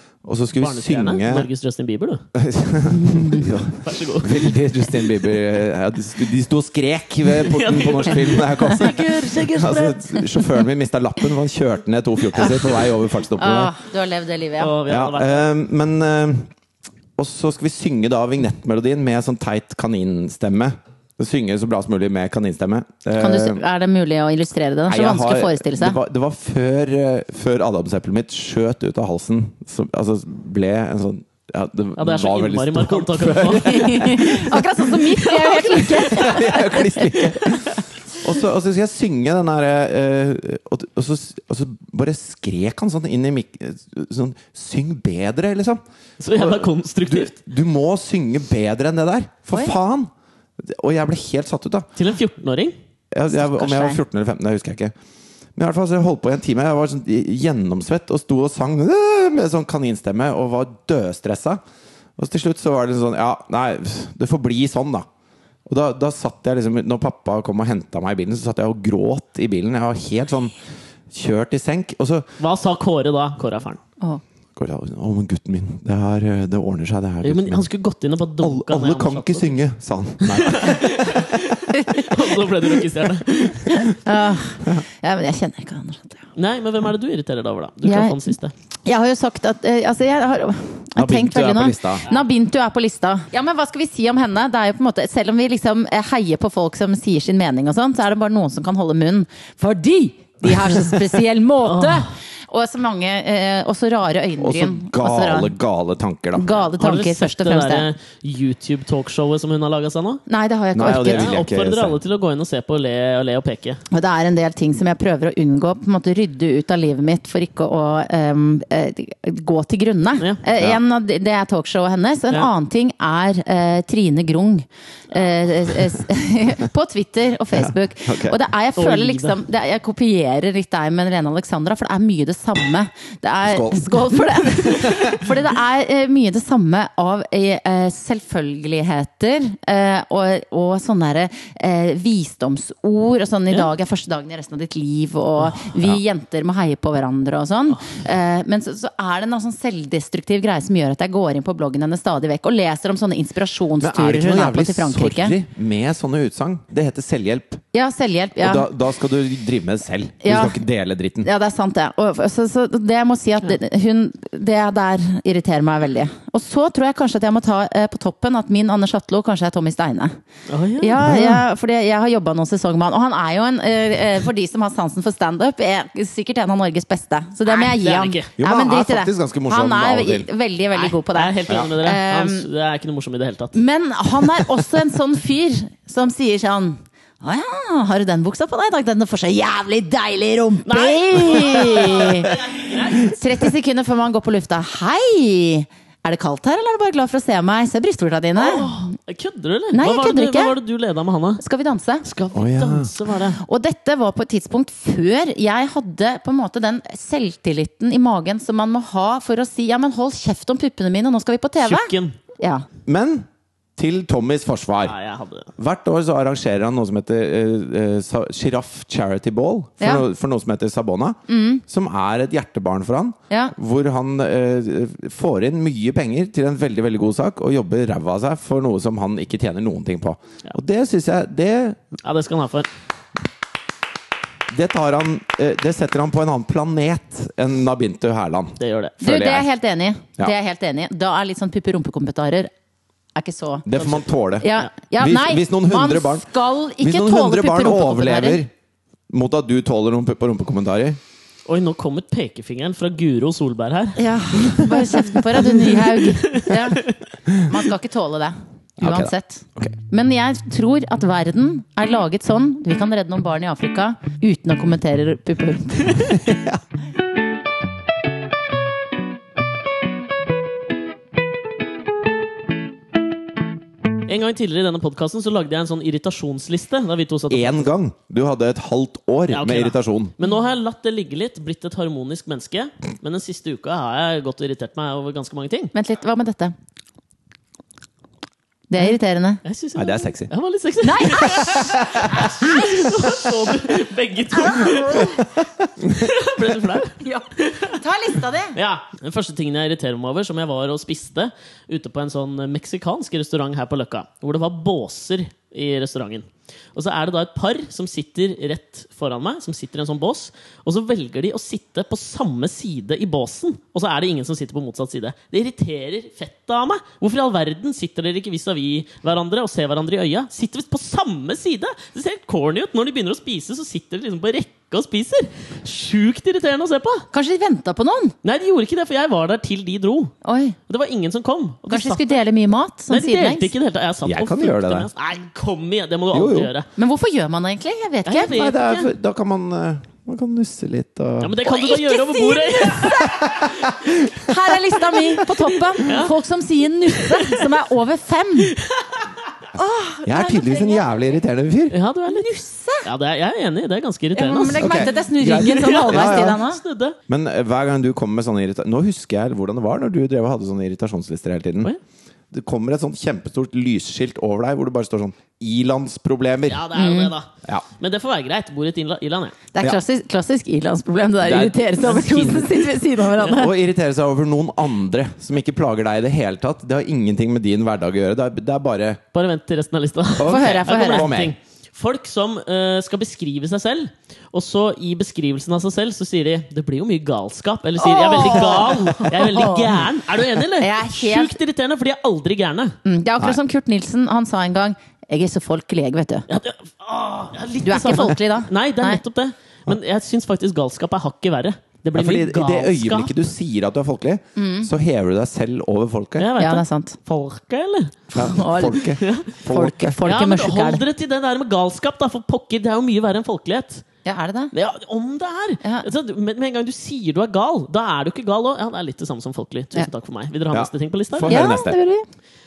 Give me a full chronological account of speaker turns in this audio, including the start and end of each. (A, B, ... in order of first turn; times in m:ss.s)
0:00.2-0:01.5 A
0:00.6-0:02.2 B
0:02.3-0:13.7 A
0:03.0-0:03.4 C
0:03.4-0:04.6 B
0:07.3-0:10.4 B
0:13.4-0:14.7 C
0:14.6-0:15.5 B
0:14.9-0:16.5 A
0:17.2-0:23.6 A
0:23.2-0:26.0 C
0:24.9-0:34.7 A
0:32.0-0:34.2 B
0:33.6-0:37.4 C
0:35.2-0:36.3 B
0:35.9-0:45.8 A
0:46.2-0:47.3 B
0:46.4-0:51.9 A
0:52.0-0:52.8 B
0:53.1-0:54.9 A
0:53.3-0:54.0 C
0:55.6-1:01.6 A
1:02.2-1:05.1 A
1:05.7-1:10.5 A
1:11.1-1:12.3 A
1:12.4-1:13.8 B
1:14.6-1:17.6 A
1:17.2-1:19.6 B
1:18.4-1:21.4 A
1:20.2-1:23.9 B
1:21.7-1:22.1 C
1:23.7-1:26.2 C
1:26.4-1:28.5 B
1:27.8-1:28.3 C
1:28.8-1:45.5 C
1:31.0-1:32.0 A
1:41.6-1:42.1 B
1:44.4-1:46.5 A
1:46.4-1:47.9 C
1:46.6-1:50.2 B
1:50.3-1:51.4 C
1:50.7-1:52.0 A
1:50.9-1:53.8 B
1:53.9-2:35.4 C
2:07.5-2:08.4 A
2:08.8-2:09.4 B
2:13.4-2:14.1 A
2:14.7-2:15.2 A
2:33.8-2:37.6 A
2:37.7-2:38.7 C
2:38.4-2:41.3 A
2:40.2-2:40.6 C
2:41.2-2:50.2 C
2:50.5-2:51.0 B
2:50.8-3:02.5 C
2:51.0-2:51.4 A
2:57.5-2:58.3 B
2:58.4-3:00.3 A
3:00.8-3:03.6 B
3:03.5-3:12.3 C
3:10.6-3:13.2 B
3:13.0-3:18.7 C
3:18.4-3:21.4 B
3:19.7-3:20.6 C
3:21.4-3:22.1 C
3:22.0-3:23.4 B
3:22.3-3:22.9 A
3:23.4-3:32.7 C
3:31.6-3:32.2 B
3:32.9-3:35.0 A
3:34.8-3:35.5 B
3:35.6-3:51.8 A
3:41.3-3:41.6 C
3:52.0-3:52.7 B
3:54.5-3:59.5 A
3:58.6-3:59.0 B
3:59.0-4:02.5 C
4:03.2-4:03.7 C
4:03.7-4:06.3 A
4:03.8-4:04.0 B
4:04.4-4:08.4 C
4:06.8-4:08.5 A
4:09.1-4:11.0 A
4:11.5-4:17.0 B
4:14.0-4:26.2 C
4:18.8-4:19.8 A
4:26.1-4:26.6 A
4:34.1-4:37.7 B
4:37.3-4:40.1 A
4:39.3-4:45.7 B
4:45.7-4:46.5 C
4:48.7-4:49.4 C
4:49.4-4:55.2 B
4:49.8-4:50.3 A
4:50.8-4:52.9 C
4:51.5-4:52.3 A
4:54.3-4:55.2 C
4:55.8-4:57.8 B
4:57.0-4:58.6 C
4:58.6-5:27.1 B
5:27.1-5:28.2 C
5:28.2-5:30.1 B
5:30.2-5:30.6 C
5:30.7-5:32.2 B
5:31.7-5:33.5 C
5:32.9-5:36.7 B
5:34.0-5:34.9 A
5:36.1-5:36.5 A
5:36.8-5:38.3 C
5:38.1-5:38.9 B
5:38.3-5:41.4 A
5:41.2-5:43.4 B
5:41.4-5:43.5 C
5:43.2-5:44.2 A
5:44.2-5:48.6 C
5:45.8-5:46.2 B
5:47.1-5:47.5 B
5:48.6-5:49.1 B
5:49.6-5:51.1 C
5:50.1-5:51.8 A
5:51.7-5:57.0 B
5:52.1-5:52.9 C
5:54.2-5:56.6 C
5:54.6-5:56.4 A
5:57.1-6:01.7 A
6:02.3-6:06.7 A
6:06.5-6:09.4 B
6:06.8-6:07.1 C
6:09.5-6:13.5 C
6:11.2-6:12.7 A
6:13.2-6:19.0 A
6:19.1-6:32.8 B
6:20.2-6:21.4 A
6:20.2-6:21.1 C
6:27.8-6:29.8 C
6:30.6-6:31.4 C
6:32.8-6:36.3 C
6:36.3-6:43.2 B
6:37.6-6:39.0 C
6:42.0-6:46.3 A
6:44.4-6:44.7 C
6:46.2-6:48.0 B
6:46.4-6:47.0 C
6:48.1-6:49.0 C
6:48.1-6:50.0 A
6:49.0-6:49.3 B
6:49.5-6:50.8 C
6:50.0-6:53.8 B
6:54.0-6:54.5 C
6:54.5-7:01.4 B
7:00.5-7:01.8 A
7:01.3-7:02.0 C